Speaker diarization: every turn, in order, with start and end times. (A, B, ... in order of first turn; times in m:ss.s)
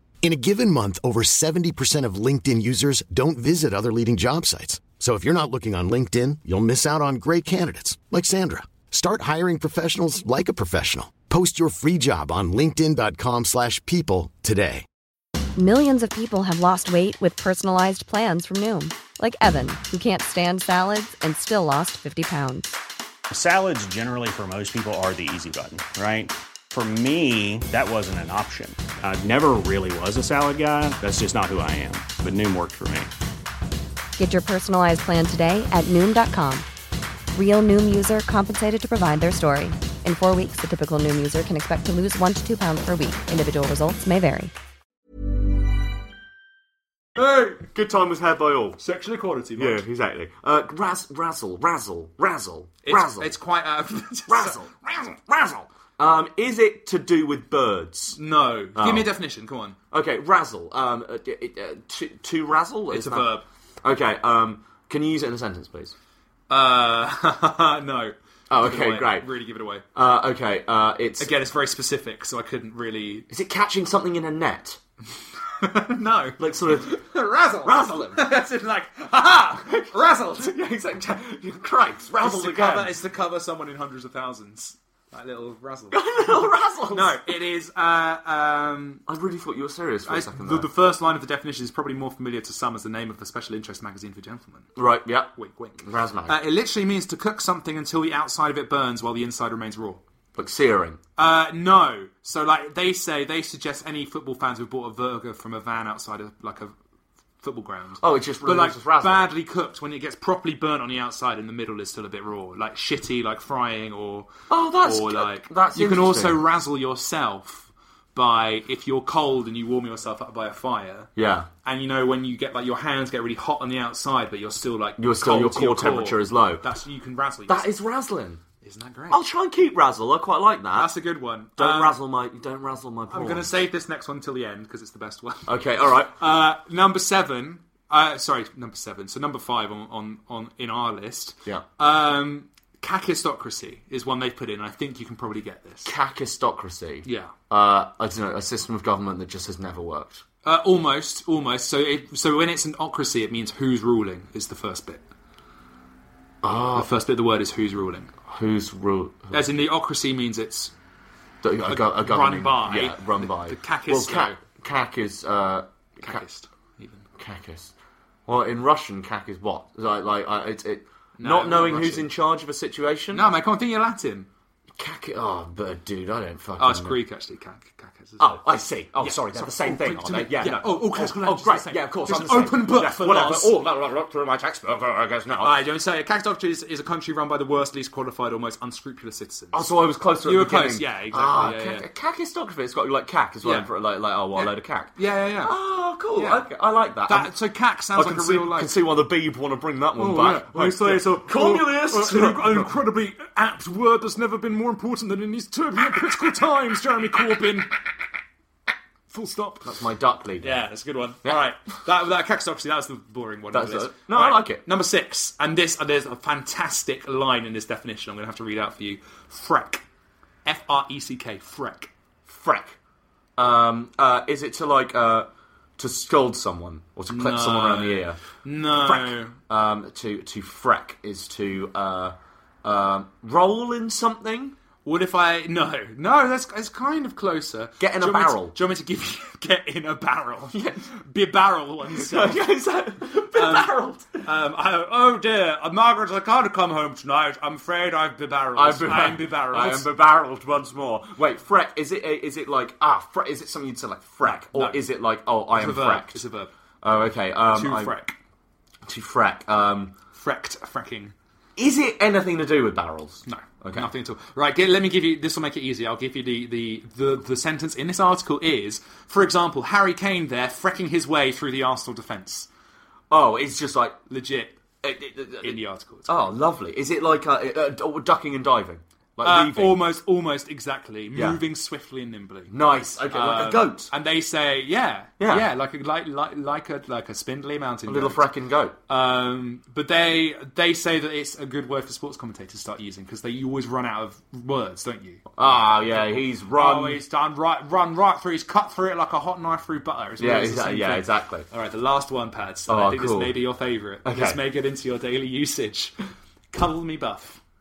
0:00.2-0:14.8 A
0:15.6-0:22.7 B
0:23.3-0:33.1 C
0:34.2-0:36.6 B
0:37.3-0:44.5 B
0:47.2-0:47.6 D
0:47.6-0:48.8 E
0:48.8-0:49.8 D
0:49.6-0:53.4 E
0:52.8-0:55.1 D
0:54.3-0:58.2 E
0:58.2-0:59.8 D
0:58.7-0:59.1 E
0:59.9-1:05.9 E
1:02.9-1:03.4 D
1:06.5-1:09.8 D
1:08.5-1:09.3 E
1:09.9-1:11.3 E
1:11.2-1:13.3 D
1:13.3-1:14.8 E
1:15.6-1:20.5 D
1:16.4-1:17.0 E
1:17.6-1:18.2 E
1:19.7-1:23.0 E
1:22.2-1:26.0 D
1:25.9-1:27.2 E
1:26.9-1:29.0 D
1:29.1-1:30.7 E
1:30.1-1:34.7 D
1:34.8-1:36.4 E
1:35.3-1:40.0 D
1:40.3-1:41.0 E
1:41.2-1:46.7 D
1:47.4-1:54.3 D
1:48.0-1:49.3 E
1:54.5-1:56.4 E
1:54.8-2:01.1 D
2:01.2-2:01.5 E
2:01.6-2:07.7 D
2:05.0-2:06.7 E
2:07.5-2:08.4 E
2:08.6-2:09.2 D
2:09.1-2:11.0 E
2:10.7-2:12.0 D
2:11.6-2:13.6 E
2:13.1-2:15.6 D
2:15.5-2:16.2 E
2:16.1-2:25.9 D
2:25.8-2:30.2 E
2:27.0-2:27.3 D
2:30.4-2:35.0 D
2:36.4-2:36.9 E
2:36.7-2:38.1 D
2:38.2-2:39.5 E
2:39.3-2:40.7 D
2:41.4-2:46.2 E
2:41.7-2:44.4 D
2:46.0-2:47.0 D
2:47.2-2:47.7 E
2:48.3-2:53.3 E
2:51.2-2:52.1 D
2:53.1-2:54.3 D
2:54.8-2:57.0 E
2:56.6-2:58.4 D
2:58.2-3:05.6 E
2:59.0-3:03.5 D
3:05.4-3:09.6 D
3:09.5-3:17.3 E
3:10.2-3:11.9 D
3:13.4-3:13.7 D
3:14.3-3:15.5 D
3:16.1-3:16.5 D
3:17.0-3:18.8 D
3:17.9-3:22.7 E
3:20.0-3:27.8 D
3:29.1-3:29.7 D
3:29.6-3:30.6 E
3:30.4-3:39.8 D
3:33.5-3:34.6 E
3:40.4-3:41.9 D
3:42.3-3:42.8 E
3:43.4-3:48.2 E
3:47.1-3:49.4 D
3:48.7-3:54.6 E
3:54.8-4:02.4 D
3:57.8-3:58.6 E
4:00.5-4:00.9 E
4:01.9-4:04.3 E
4:03.3-4:09.9 D
4:08.5-4:16.2 E
4:14.2-4:14.8 D
4:15.5-4:16.5 D
4:16.8-4:17.9 E
4:17.5-4:18.2 D
4:18.8-4:19.9 E
4:20.1-4:21.1 D
4:21.6-4:23.9 E
4:23.2-4:32.5 D
4:33.1-4:34.0 E
4:34.1-4:34.6 D
4:34.8-4:39.8 E
4:35.4-4:36.3 D
4:39.2-4:42.5 D
4:41.1-4:41.4 E
4:42.5-4:43.9 E
4:43.1-4:48.2 D
4:45.2-4:45.5 E
4:47.8-4:48.8 E
4:48.9-4:55.3 D
4:55.3-4:57.0 E
4:55.8-5:05.9 D
5:00.2-5:01.5 E
5:02.7-5:03.4 E
5:04.0-5:04.4 E
5:06.5-5:07.4 D